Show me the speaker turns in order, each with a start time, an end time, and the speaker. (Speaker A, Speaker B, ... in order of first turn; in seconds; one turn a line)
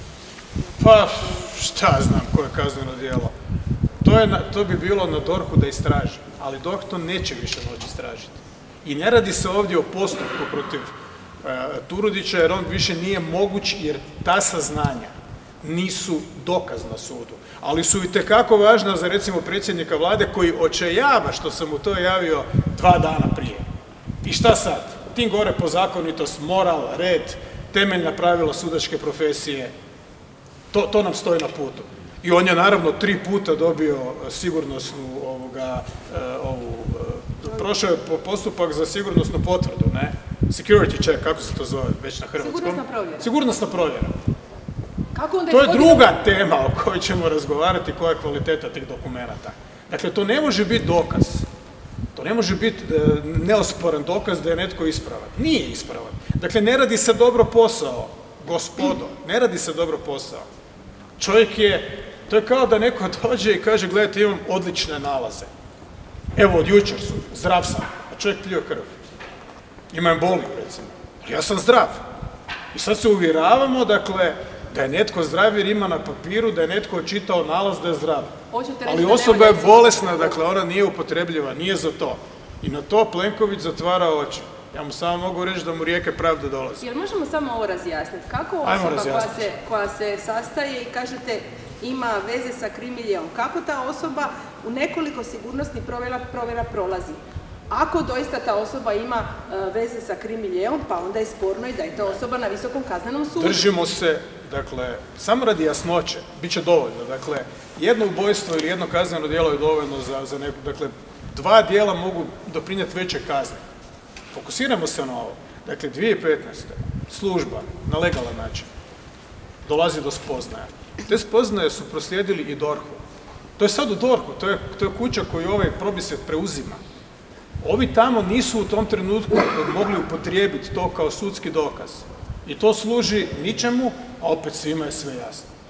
Speaker A: 0.8-3.3
Speaker A: 4.0-23.6
Speaker A: 24.2-29.7
Speaker A: 30.7-44.1
Speaker B: 42.4-43.3
Speaker B: 45.1-46.1
Speaker A: 45.5-51.5
Speaker A: 52.1-60.5
Speaker A: 61.2-65.5
Speaker A: 66.4-68.9
Speaker A: 69.9-72.0
Speaker A: 72.7-78.3
Speaker B: 78.5-80.4
Speaker A: 78.9-86.9
Speaker B: 86.8-103.7
Speaker A: 88.6-89.4
Speaker A: 103.3-113.6
Speaker A: 114.3-118.7
Speaker A: 119.7-123.0
Speaker A: 123.6-126.8
Speaker A: 127.6-135.5